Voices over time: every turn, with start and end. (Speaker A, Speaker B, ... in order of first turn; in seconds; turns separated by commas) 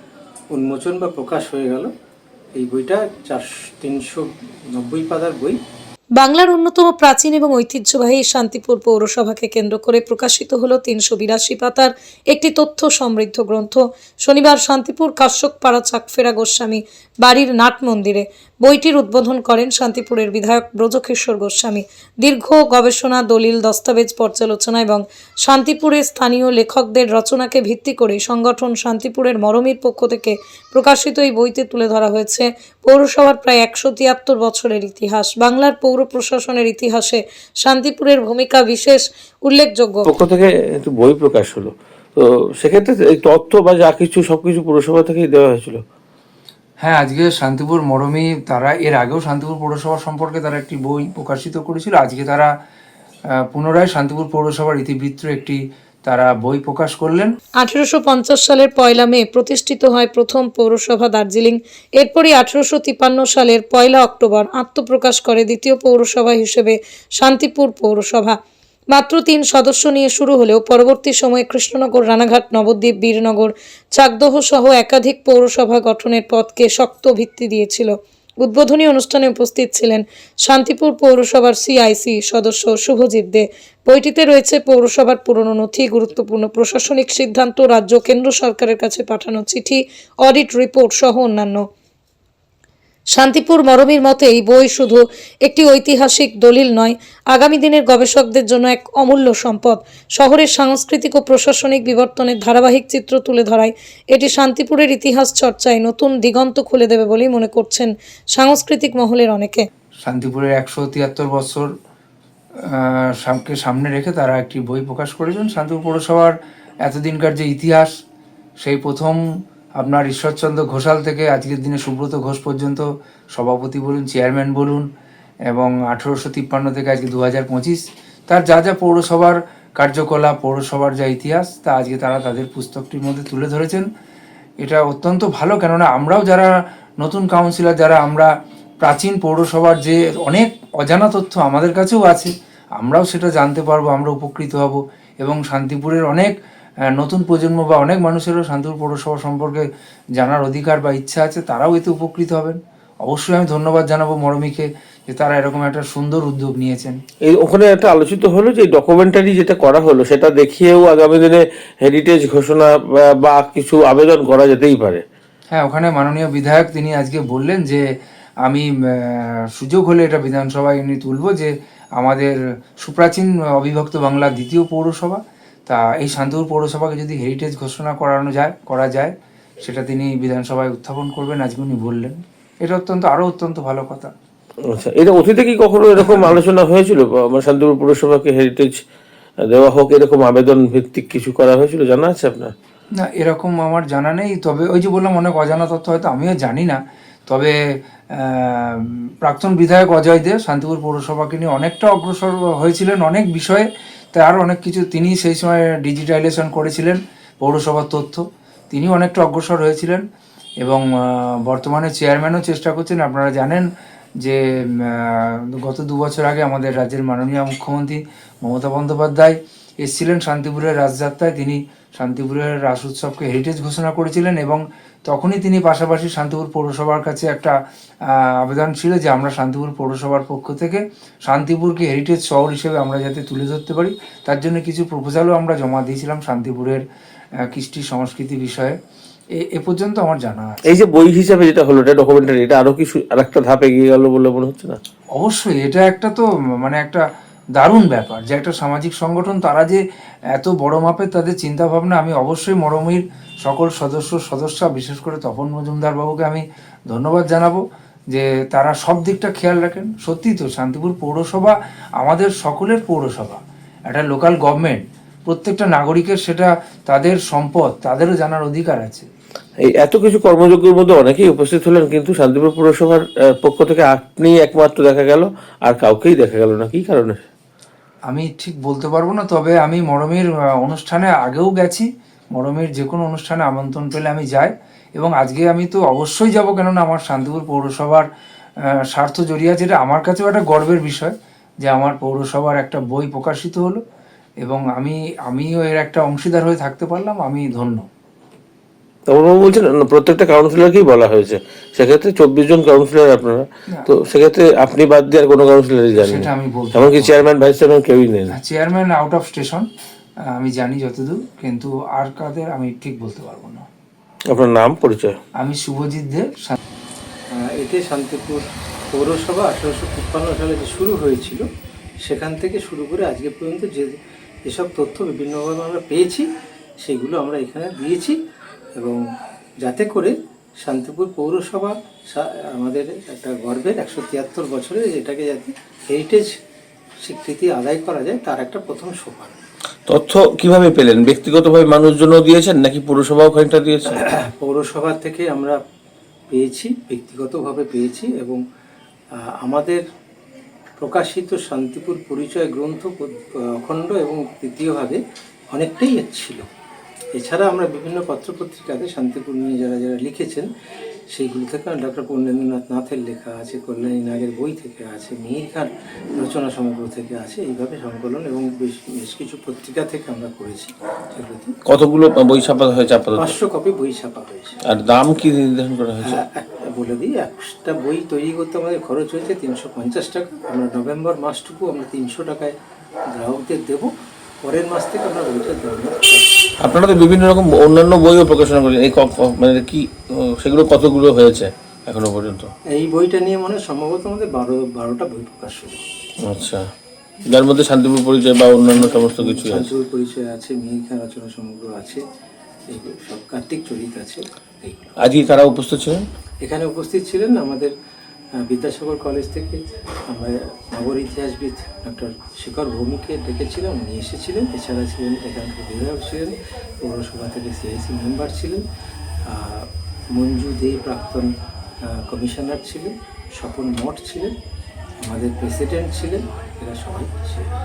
Speaker A: 0.5-1.9, Speaker A: 2.6-5.6, Speaker B: 6.2-40.1, Speaker C: 40.0-45.8, Speaker D: 46.8-52.5, Speaker D: 53.5-57.3, Speaker B: 57.6-68.4, Speaker B: 68.9-91.6, Speaker B: 93.1-109.7, Speaker D: 110.0-111.7, Speaker D: 112.7-117.9, Speaker D: 118.6-119.2, Speaker D: 119.8-124.8, Speaker D: 125.5-133.8, Speaker D: 134.6-136.5, Speaker D: 137.0-138.3, Speaker D: 138.8-146.3, Speaker D: 146.9-149.7, Speaker D: 150.2-157.0, Speaker C: 157.3-165.0, Speaker D: 165.5-167.8, Speaker D: 168.4-184.1, Speaker C: 184.7-188.8, Speaker C: 189.5-192.5, Speaker D: 193.0-197.5, Speaker D: 198.1-210.0, Speaker D: 210.6-213.7, Speaker D: 214.2-227.5, Speaker D: 228.1-236.8, Speaker D: 237.4-238.8, Speaker D: 239.4-240.8, Speaker C: 240.7-244.8, Speaker D: 245.2-247.0, Speaker D: 247.6-249.8, Speaker D: 250.3-257.6, Speaker D: 258.1-269.1, Speaker C: 269.7-277.2, Speaker D: 278.1-288.1, Speaker D: 288.9-291.1, Speaker D: 291.6-293.8, Speaker D: 294.4-297.9, Speaker C: 299.1-308.3, Speaker D: 305.9-307.3, Speaker D: 308.4-309.7, Speaker D: 310.4-313.6, Speaker C: 314.3-315.2, Speaker D: 315.4-316.6, Speaker A: 317.4-321.4, Speaker A: 322.0-326.3, Speaker A: 326.8-328.2, Speaker A: 329.6-336.3, Speaker A: 337.0-339.4, Speaker C: 339.9-344.0, Speaker A: 344.0-345.6, Speaker A: 346.3-348.4, Speaker A: 349.4-349.8, Speaker A: 350.8-355.0, Speaker A: 355.5-356.4, Speaker A: 357.2-360.5, Speaker A: 361.1-371.5, Speaker C: 371.7-373.4, Speaker A: 373.1-374.6, Speaker C: 374.6-376.2, Speaker A: 376.0-382.6, Speaker A: 383.1-383.9, Speaker A: 384.4-386.4, Speaker C: 386.6-392.5, Speaker A: 392.7-395.8, Speaker C: 396.2-396.7, Speaker C: 397.3-399.7, Speaker A: 398.6-402.0, Speaker A: 402.7-404.9, Speaker C: 405.0-406.0, Speaker A: 406.4-407.7, Speaker A: 408.4-418.6, Speaker A: 419.3-421.3, Speaker A: 422.0-424.3, Speaker A: 425.0-427.5